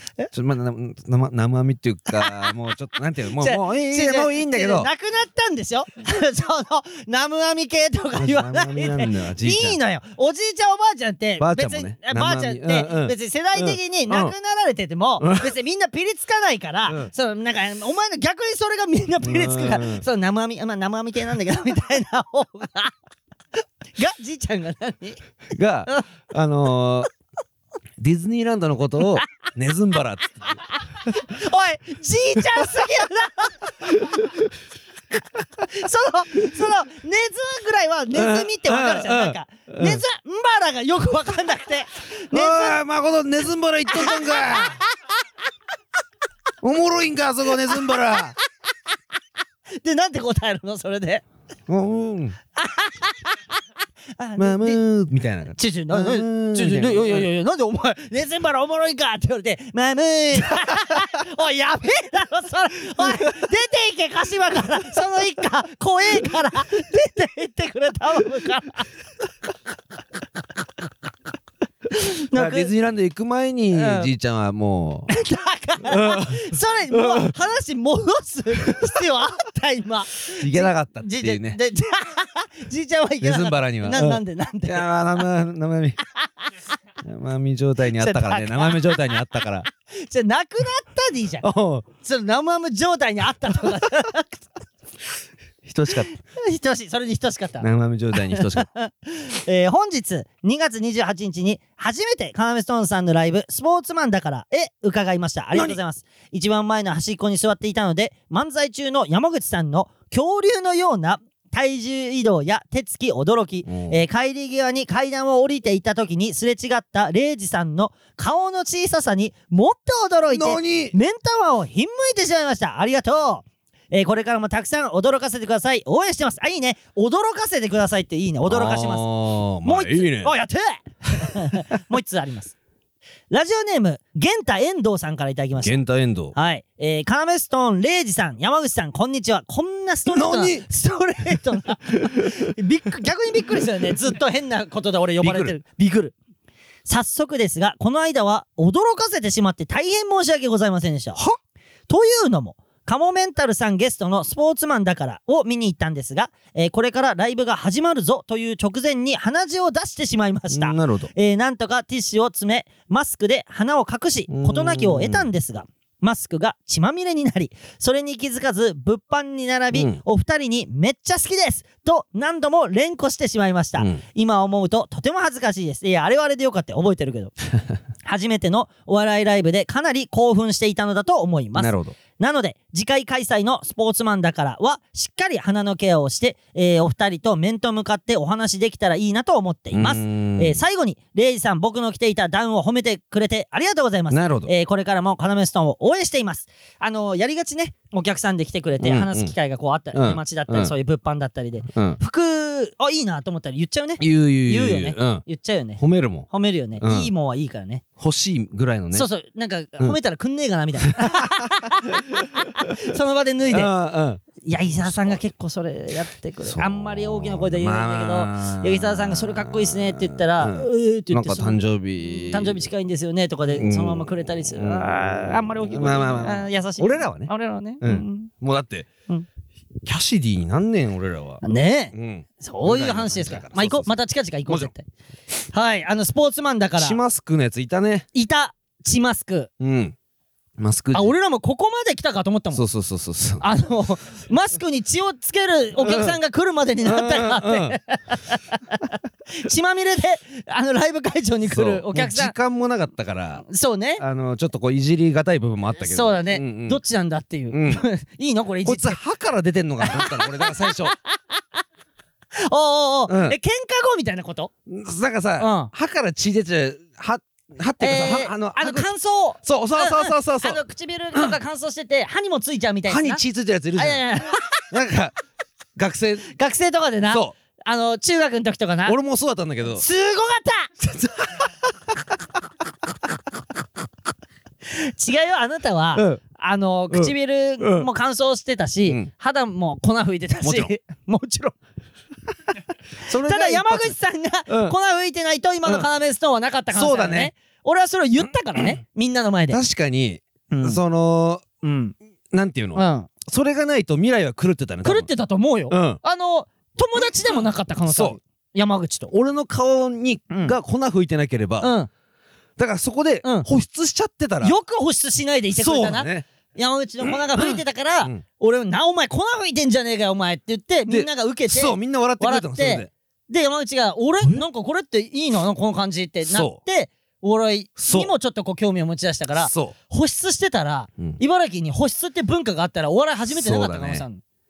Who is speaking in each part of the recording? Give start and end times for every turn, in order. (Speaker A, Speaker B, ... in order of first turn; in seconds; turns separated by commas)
Speaker A: 0.3-4.9, Speaker B: 2.2-2.6, Speaker B: 3.4-22.9, Speaker A: 8.2-9.8, Speaker A: 11.4-14.3, Speaker A: 15.2-15.5, Speaker A: 19.2-20.0, Speaker B: 24.0-25.2, Speaker A: 25.5-27.1, Speaker A: 28.0-30.6, Speaker B: 31.1-33.7, Speaker A: 33.9-34.5, Speaker B: 35.7-42.8, Speaker A: 38.1-40.0, Speaker A: 42.3-44.8, Speaker B: 43.9-44.8, Speaker A: 46.6-48.4, Speaker B: 49.8-51.2, Speaker A: 51.7-52.4, Speaker B: 52.6-53.4, Speaker B: 54.2-54.8, Speaker A: 54.4-57.3, Speaker B: 55.5-68.9, Speaker B: 71.9-72.7, Speaker A: 72.3-75.1, Speaker B: 73.7-74.1, Speaker B: 75.1-84.9, Speaker A: 75.9-77.3, Speaker A: 80.4-81.6, Speaker A: 83.2-86.0, Speaker A: 87.0-89.7, Speaker B: 87.9-89.2, Speaker B: 89.9-91.5, Speaker A: 91.4-91.9, Speaker B: 92.0-94.6, Speaker A: 95.6-96.1, Speaker B: 96.0-129.1, Speaker A: 97.6-98.7, Speaker A: 113.7-114.0, Speaker A: 120.3-121.0, Speaker A: 128.5-130.3, Speaker B: 129.6-132.6, Speaker B: 133.3-135.8, Speaker A: 135.6-136.3, Speaker B: 136.3-146.2, Speaker A: 140.1-140.7, Speaker A: 145.2-145.6, Speaker B: 146.9-151.2, Speaker B: 151.9-177.3, Speaker A: 160.5-161.1, Speaker A: 164.3-165.3, Speaker A: 169.7-170.0, Speaker B: 178.0-207.8, Speaker A: 181.6-182.0, Speaker A: 189.7-190.6, Speaker A: 194.1-194.5, Speaker A: 198.8-199.3, Speaker A: 199.9-200.7, Speaker A: 201.7-202.0, Speaker A: 204.0-205.2, Speaker A: 205.8-206.3, Speaker A: 206.8-207.1, Speaker A: 208.0-209.1, Speaker B: 208.9-213.7, Speaker A: 210.9-211.4, Speaker A: 213.5-214.2, Speaker B: 214.4-228.3, Speaker A: 214.8-215.2, Speaker A: 216.4-222.7, Speaker A: 223.5-228.9, Speaker A: 229.8-231.4, Speaker B: 231.4-234.8, Speaker A: 231.9-233.9, Speaker A: 234.5-234.7, Speaker B: 235.5-237.0, Speaker A: 236.8-238.1, Speaker B: 238.1-239.5, Speaker A: 239.6-239.9, Speaker A: 240.6-241.1, Speaker B: 240.9-242.7, Speaker A: 242.5-243.5, Speaker B: 243.4-252.3, Speaker A: 245.8-246.2, Speaker A: 246.8-247.8, Speaker A: 251.4-253.5, Speaker B: 253.5-254.0, Speaker A: 254.0-256.8, Speaker B: 255.8-259.0, Speaker A: 257.5-257.8, Speaker A: 258.6-260.9, Speaker B: 259.8-261.4, Speaker B: 262.4-264.5, Speaker A: 263.1-263.4, Speaker A: 264.7-268.9, Speaker B: 265.4-265.7, Speaker B: 267.8-273.2, Speaker A: 269.4-270.6, Speaker A: 272.9-274.0, Speaker B: 273.8-274.6, Speaker A: 274.7-275.1, Speaker A: 275.8-276.3, Speaker B: 276.3-279.0, Speaker A: 277.1-277.4, Speaker A: 278.9-279.8, Speaker B: 279.8-280.8, Speaker B: 284.7-291.6, Speaker A: 285.9-286.2, Speaker A: 286.9-287.9, Speaker A: 288.9-289.1, Speaker A: 290.4-290.7, Speaker A: 293.1-293.9, Speaker B: 293.1-299.6, Speaker A: 294.5-294.8, Speaker A: 296.7-297.3, Speaker A: 299.5-301.4, Speaker B: 300.5-300.8, Speaker B: 301.6-301.9, Speaker A: 302.3-305.1, Speaker B: 302.8-303.1, Speaker B: 304.8-309.1, Speaker A: 305.7-306.0, Speaker A: 307.9-308.2, Speaker A: 309.1-311.7, Speaker B: 310.3-310.6, Speaker B: 311.6-311.9, Speaker A: 312.6-314.6, Speaker B: 314.4-334.2, Speaker A: 315.5-316.3, Speaker A: 317.0-318.2, Speaker A: 320.9-322.9, Speaker A: 326.3-326.6, Speaker A: 327.8-328.1, Speaker A: 329.4-329.8, Speaker A: 333.3-334.1